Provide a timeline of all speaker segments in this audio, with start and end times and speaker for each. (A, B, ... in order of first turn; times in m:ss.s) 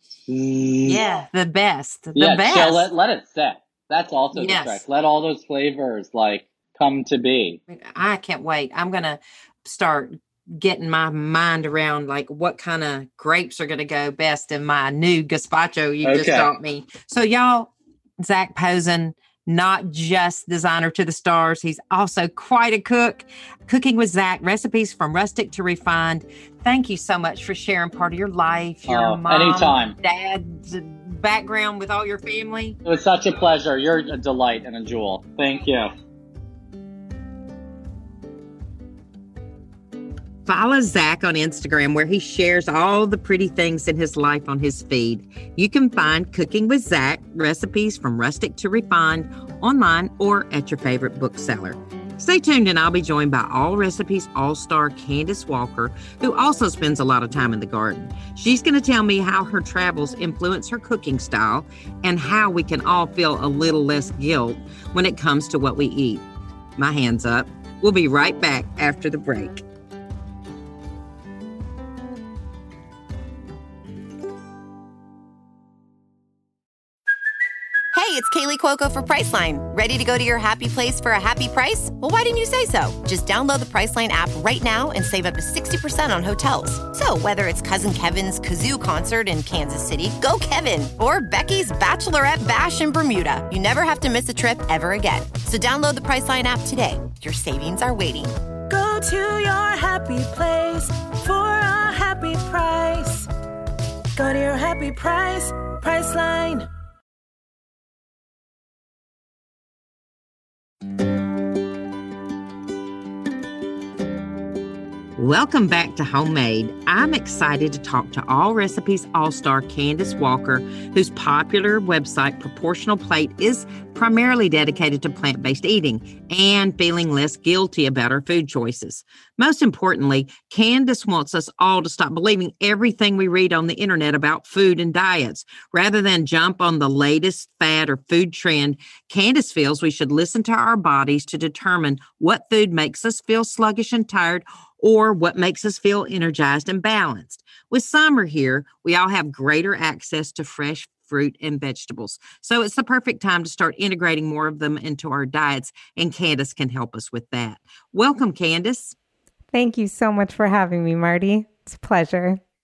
0:00.3-0:01.0 A
0:00.9-0:02.9 B
0:02.1-0:07.6 A
0:04.3-0:04.8 B
0:07.7-0:32.8 B
0:16.0-0:16.5 A
0:28.9-0:30.0 A
0:32.9-0:35.9 A
0:40.4-1:06.2 B
1:06.8-1:09.6 B
1:17.9-1:38.4 C
1:38.7-1:43.3 D
1:44.2-1:46.7 D
1:55.2-2:38.9 B
2:39.5-2:42.4 E